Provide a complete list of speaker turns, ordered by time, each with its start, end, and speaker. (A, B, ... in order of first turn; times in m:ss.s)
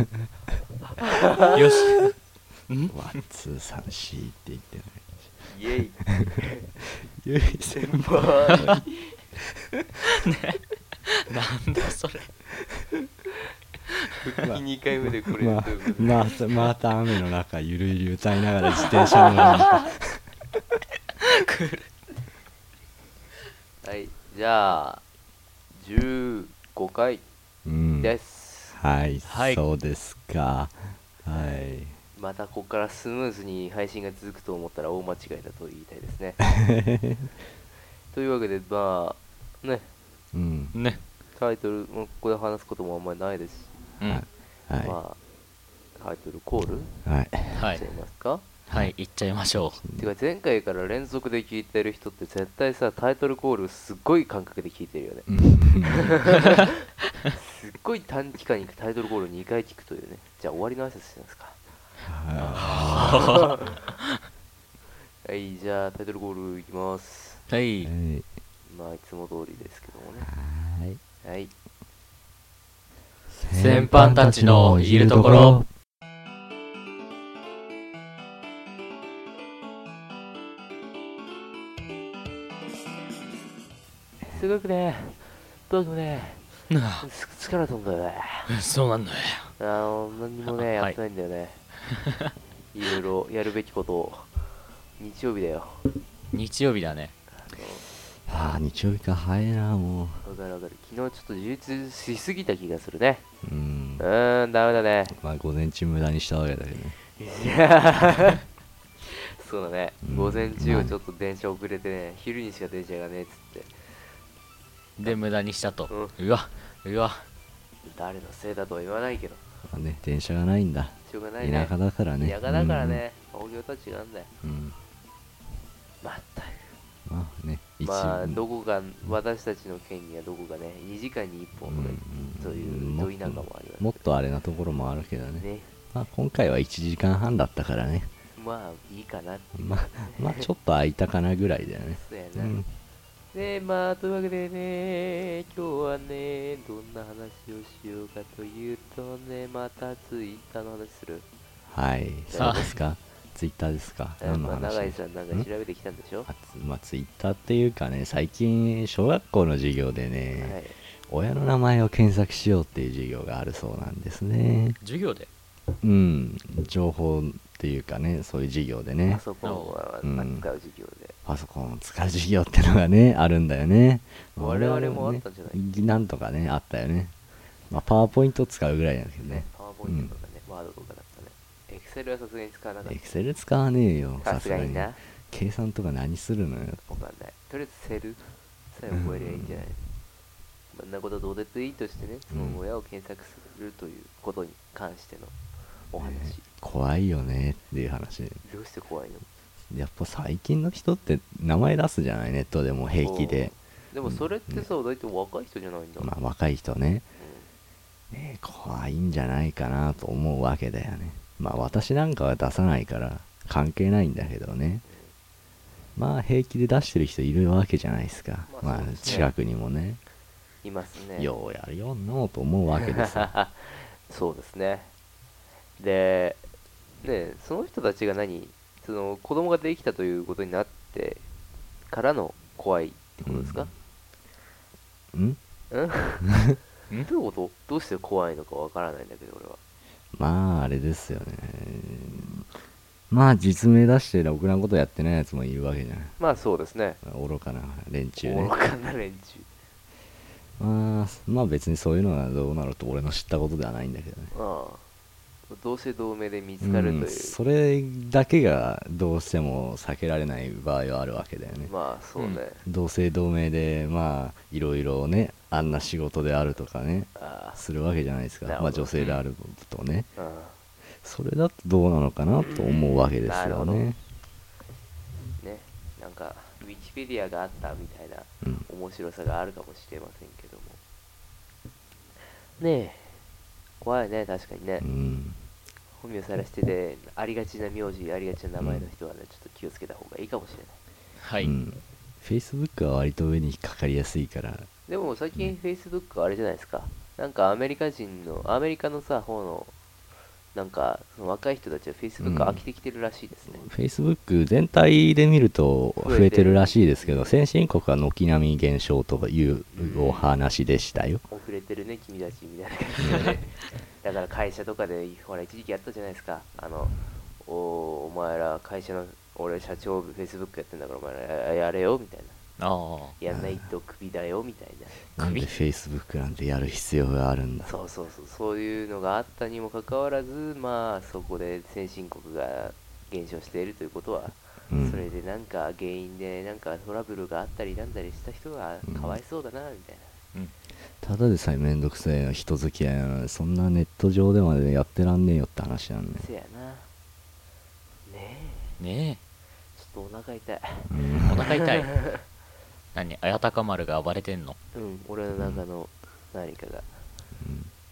0:01.0-0:01.6 A
0:01.5-0:02.1 B
0:02.7-0:03.0 B
0:02.9-0:05.5 C
0:05.5-0:06.7 A
0:06.2-0:08.8 C
0:07.7-0:09.1 A
0:10.1-0:12.3 B
0:14.2-0:16.4 A
0:14.4-0:20.6 C
0:21.2-0:21.8 B
0:23.8-0:25.0 A
0:25.7-0:27.2 A
0:27.6-0:28.1 C
0:28.0-0:28.8 A
0:28.7-0:32.0 C
0:29.2-0:29.6 B
0:31.3-0:31.6 A
0:32.1-0:36.4 A
0:36.4-0:37.3 C
0:38.1-0:39.9 A
0:40.3-0:40.8 C
0:40.7-0:41.0 B
0:41.3-0:43.8 A
0:44.0-0:45.0 C
0:44.8-0:45.2 A
0:46.0-0:47.0 A
0:47.0-0:47.6 C
0:47.5-0:48.4 A
0:47.6-0:47.9 B
0:48.7-0:49.8 B
0:49.8-0:50.1 C
0:50.0-0:56.8 A
0:55.3-0:56.2 C
0:57.3-1:01.6 A
1:02.0-1:03.5 C
1:02.4-1:03.8 A
1:02.5-1:03.6 B
1:05.2-1:07.4 A
1:07.5-1:07.9 B
1:07.8-1:08.3 C
1:08.7-1:10.3 A
1:10.3-1:11.0 C
1:11.2-1:11.5 A
1:13.3-1:15.7 C
1:13.5-1:15.6 B
1:24.3-1:26.5 A
1:26.7-1:27.0 B
1:27.0-1:28.5 A
1:28.5-1:29.5 B
1:29.6-1:31.6 A
1:30.4-1:31.0 B
1:31.9-1:32.3 B
1:32.7-1:34.4 A
1:35.0-1:35.8 A
1:36.3-1:37.2 B
1:37.4-1:37.8 A
1:38.2-1:40.2 C
1:40.2-1:43.2 A
1:43.4-1:44.0 C
1:44.0-1:45.2 A
1:45.1-1:47.0 C
1:47.1-1:48.4 A
1:49.0-1:53.8 A
1:50.0-1:50.9 C
1:55.0-1:57.2 B
1:55.9-1:56.1 A
1:57.8-1:59.4 A
1:59.7-2:03.0 C
2:01.0-2:04.3 A
2:04.4-2:04.8 C
2:06.0-2:06.7 A
2:07.0-2:08.4 C
2:07.8-2:14.1 A
2:11.6-2:18.1 C
2:15.3-2:15.7 A
2:18.4-2:20.5 A
2:19.5-2:22.7 C
2:21.9-2:22.6 A
2:23.3-2:31.3 A
2:31.7-2:35.5 C
2:32.3-2:32.7 A
2:32.4-2:32.7 B
2:34.2-2:36.3 A
2:36.3-2:44.8 C
2:40.4-2:40.8 A
2:44.8-2:45.3 B
2:45.8-2:49.2 C
2:49.1-2:51.2 A
2:49.4-2:49.7 B
2:50.0-2:50.4 C
2:51.2-2:57.1 C
2:54.4-2:55.7 A
2:57.7-3:00.1 C
2:59.2-3:03.1 A
3:02.8-3:06.9 C
3:04.2-3:05.0 A
3:06.9-3:09.8 A
3:08.9-3:09.6 C
3:10.7-3:15.3 A
3:12.3-3:12.6 C
3:15.9-3:16.4 A
3:15.9-3:18.4 C
3:18.4-3:19.3 A
3:19.7-3:23.5 C
3:23.0-3:26.1 A
3:24.0-3:24.6 C
3:26.0-3:27.1 C
3:27.2-3:27.5 A
3:28.1-3:34.8 C
3:34.8-3:35.1 A
3:36.0-3:40.0 C
3:38.5-3:39.3 A
3:40.6-3:41.3 A
3:41.2-3:43.3 C
3:42.7-3:44.9 A
3:45.8-3:46.4 A
3:47.0-3:51.2 A
3:51.9-3:53.7 A
3:53.2-3:53.7 C
3:55.1-3:55.4 C
3:55.7-3:56.4 A
3:57.0-3:59.6 A
4:00.1-4:02.5 C
4:03.1-4:06.2 C
4:06.2-4:07.0 A
4:07.0-4:08.5 C
4:08.2-4:09.5 A
4:10.6-4:14.3 C
4:14.3-4:14.8 A
4:15.5-4:17.4 A
4:16.6-4:21.7 C
4:21.6-4:22.6 A
4:22.6-4:30.1 C
4:27.1-4:27.6 A
4:28.4-4:28.9 A
4:30.2-4:30.6 A
4:31.0-4:34.0 C
4:32.4-4:33.8 A
4:35.4-4:40.8 A
4:38.4-4:38.7 C
4:42.6-4:43.2 A
4:43.8-4:44.8 A
4:44.8-4:45.4 C
4:46.0-4:50.8 A
4:48.6-4:48.9 C
4:51.2-4:51.5 B
4:51.4-4:54.7 C
4:54.9-4:59.7 A
5:00.5-5:03.7 A
5:02.2-5:02.6 C
5:03.5-5:11.2 C
5:06.0-5:07.4 A
5:09.7-5:10.3 A
5:11.3-5:22.4 A
5:13.0-5:13.3 C
5:22.6-5:23.2 B
5:23.2-5:25.0 A
5:23.3-5:23.6 C
5:25.2-5:27.7 C
5:25.2-5:25.5 B
5:27.6-5:40.1 A
5:34.7-5:35.0 C
5:38.8-5:39.2 C
5:41.0-5:46.3 C
5:46.2-5:46.9 A
5:48.0-5:48.8 A
5:48.8-5:49.2 B
5:49.8-5:52.2 A
5:50.9-5:51.4 C
5:51.3-5:52.0 B
5:52.9-5:54.6 B
5:54.7-5:57.0 A
5:55.4-5:55.6 C
5:57.4-5:57.7 C